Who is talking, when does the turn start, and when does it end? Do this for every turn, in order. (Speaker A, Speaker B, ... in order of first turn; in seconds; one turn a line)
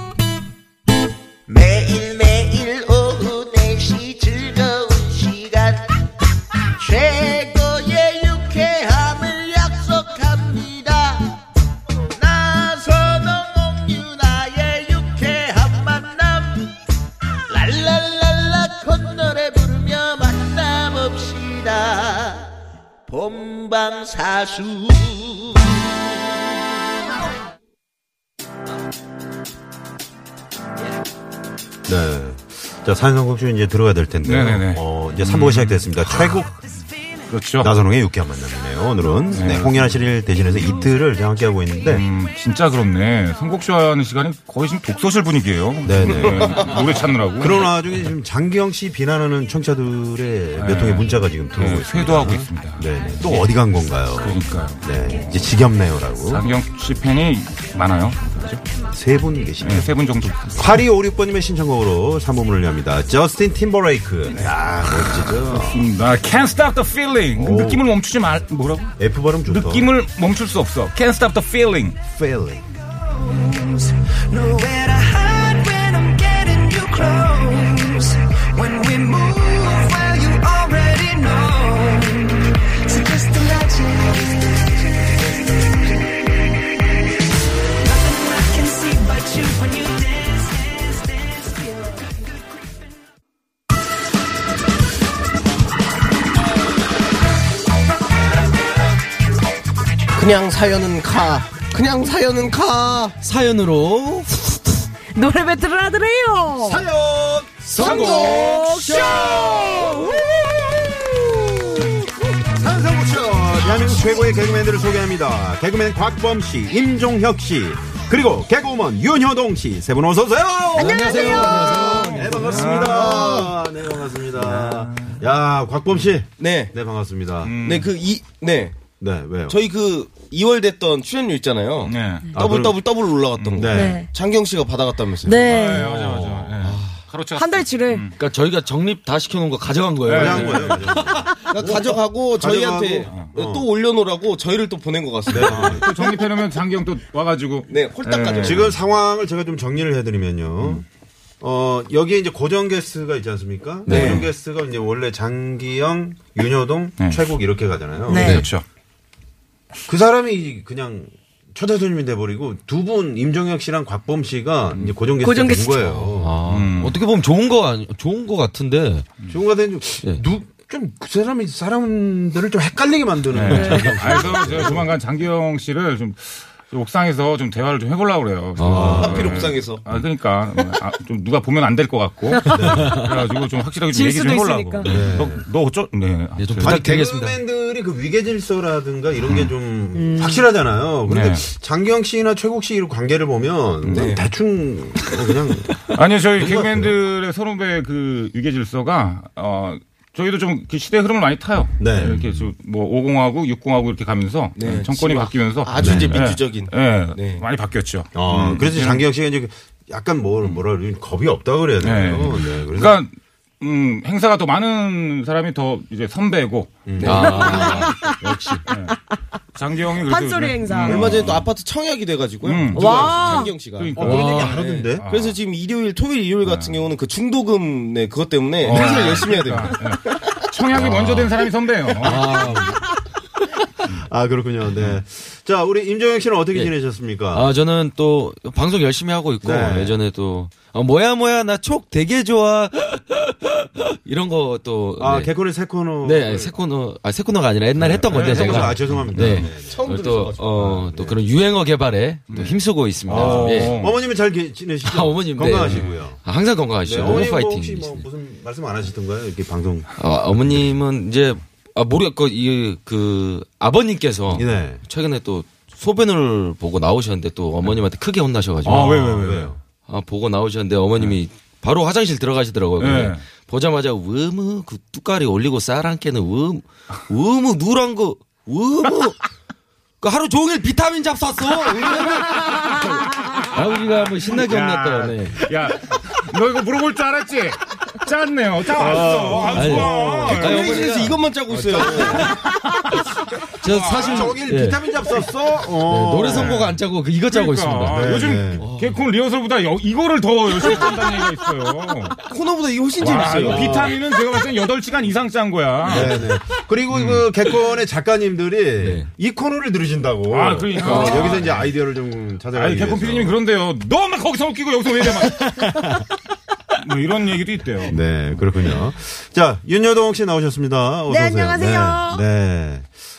Speaker A: 1.5-5.9
Speaker A: 6.8-11.4
Speaker A: 12.1-16.7
Speaker A: 17.5-22.5
Speaker A: 23.1-26.0
Speaker B: 31.9-36.5
Speaker C: 34.2-36.5
Speaker C: 37.3-37.7
Speaker B: 37.6-42.1
Speaker C: 39.3-39.9
Speaker C: 41.9-47.7
Speaker B: 45.9-56.5
Speaker C: 50.6-53.6
Speaker C: 54.2-54.8
Speaker C: 56.3-58.6
Speaker B: 58.9-59.9
Speaker C: 59.6-60.8
Speaker B: 60.6-65.9
Speaker C: 64.3-68.9
Speaker B: 67.3-67.9
Speaker B: 69.0-69.9
Speaker C: 69.5-72.0
Speaker B: 72.1-72.7
Speaker D: 72.9-86.7
Speaker D: 87.6-92.8
Speaker E: 100.1-103.2
Speaker F: 103.2-104.4
Speaker G: 105.2-106.8
Speaker B: 106.6-111.8
Speaker F: 107.7-109.3
Speaker G: 107.8-110.2
Speaker E: 107.8-109.1
Speaker B: 112.5-127.6
Speaker G: 120.8-122.1
Speaker F: 120.8-122.8
Speaker E: 121.0-123.5
Speaker C: 122.3-123.4
Speaker C: 124.5-125.2
Speaker E: 126.4-126.7
Speaker C: 127.4-127.9
Speaker E: 127.6-128.8
Speaker B: 129.0-129.6
Speaker E: 129.5-135.5
Speaker C: 131.8-132.4
Speaker B: 132.3-132.8
Speaker C: 133.4-133.7
Speaker B: 133.6-134.0
Speaker G: 133.7-134.1
Speaker G: 135.2-135.9
Speaker C: 135.4-138.2
Speaker B: 135.8-136.7
Speaker F: 136.6-136.9
Speaker G: 137.4-138.1
Speaker F: 138.2-141.5
Speaker C: 140.0-140.8
Speaker B: 140.1-143.7
Speaker E: 141.4-145.9
Speaker C: 143.1-143.3
Speaker B: 145.3-145.9
Speaker C: 145.3-148.7
Speaker E: 147.7-148.8
Speaker B: 148.4-150.8
Speaker B: 151.4-158.5
Speaker F: 153.9-154.2
Speaker E: 153.9-154.2
Speaker C: 153.9-154.3
Speaker G: 158.1-158.5
Speaker C: 158.1-158.7
Speaker B: 159.9-166.4
Speaker G: 165.2-166.1
Speaker F: 166.2-169.1
Speaker C: 166.5-167.0
Speaker B: 169.3-174.9
Speaker C: 173.3-186.8
Speaker F: 173.5-173.9
Speaker G: 173.6-173.8
Speaker F: 178.6-179.5
Speaker B: 178.6-179.6
Speaker E: 179.0-179.8
Speaker G: 182.3-182.7
Speaker B: 182.5-183.0
Speaker F: 182.7-183.1
Speaker G: 183.9-184.9
Speaker B: 184.8-185.4
Speaker F: 186.4-187.4
Speaker B: 186.6-196.9
Speaker G: 189.9-190.5
Speaker C: 191.1-191.4
Speaker C: 193.8-194.1
Speaker E: 193.9-194.2
Speaker C: 195.9-209.1
Speaker B: 201.8-202.2
Speaker E: 204.6-207.4
Speaker B: 205.8-206.2
Speaker B: 208.1-213.0
Speaker C: 211.8-217.6
Speaker B: 216.9-218.0
Speaker F: 217.0-218.7
Speaker E: 217.0-217.4
Speaker G: 217.4-217.9
Speaker C: 218.7-219.0
Speaker C: 219.6-221.5
Speaker G: 220.1-221.2
Speaker E: 220.8-230.4
Speaker C: 222.4-225.4
Speaker G: 222.7-223.5
Speaker B: 224.0-225.1
Speaker F: 224.0-224.5
Speaker C: 226.4-226.8
Speaker C: 228.6-232.4
Speaker B: 230.7-231.3
Speaker F: 232.0-232.9
Speaker B: 233.8-237.5
Speaker F: 237.3-245.3
Speaker B: 239.4-240.0
Speaker B: 245.0-246.6
Speaker F: 246.0-253.8
Speaker B: 247.8-249.9
Speaker C: 248.1-249.3
Speaker E: 249.3-250.8
Speaker B: 250.6-251.2
Speaker C: 252.3-252.6
Speaker B: 252.3-256.2
Speaker C: 253.1-254.0
Speaker F: 254.8-258.0
Speaker C: 255.6-255.9
Speaker B: 256.8-259.9
Speaker F: 260.0-269.3
Speaker B: 264.3-264.8
Speaker C: 268.6-269.6
Speaker B: 268.7-269.6
Speaker F: 269.9-279.2
Speaker C: 272.8-273.2
Speaker F: 280.0-285.4
Speaker C: 282.2-291.0
Speaker B: 288.7-290.9
Speaker F: 288.9-291.2
Speaker E: 290.4-292.3
Speaker B: 291.5-292.4
Speaker C: 292.3-293.1
Speaker F: 293.6-294.8
Speaker C: 293.6-294.4
Speaker B: 293.9-296.7
Speaker F: 295.9-299.0
Speaker C: 296.2-302.2
Speaker B: 297.9-298.7
Speaker E: 302.2-303.9
Speaker C: 303.0-306.2
Speaker B: 305.9-313.4
Speaker F: 305.9-306.2
Speaker C: 306.9-307.2
Speaker F: 308.8-309.1
Speaker C: 310.3-311.7
Speaker G: 310.8-311.3
Speaker F: 311.1-311.4
Speaker C: 312.5-315.7
Speaker F: 315.6-316.0
Speaker C: 316.7-318.0
Speaker B: 317.9-322.9
Speaker G: 321.1-322.2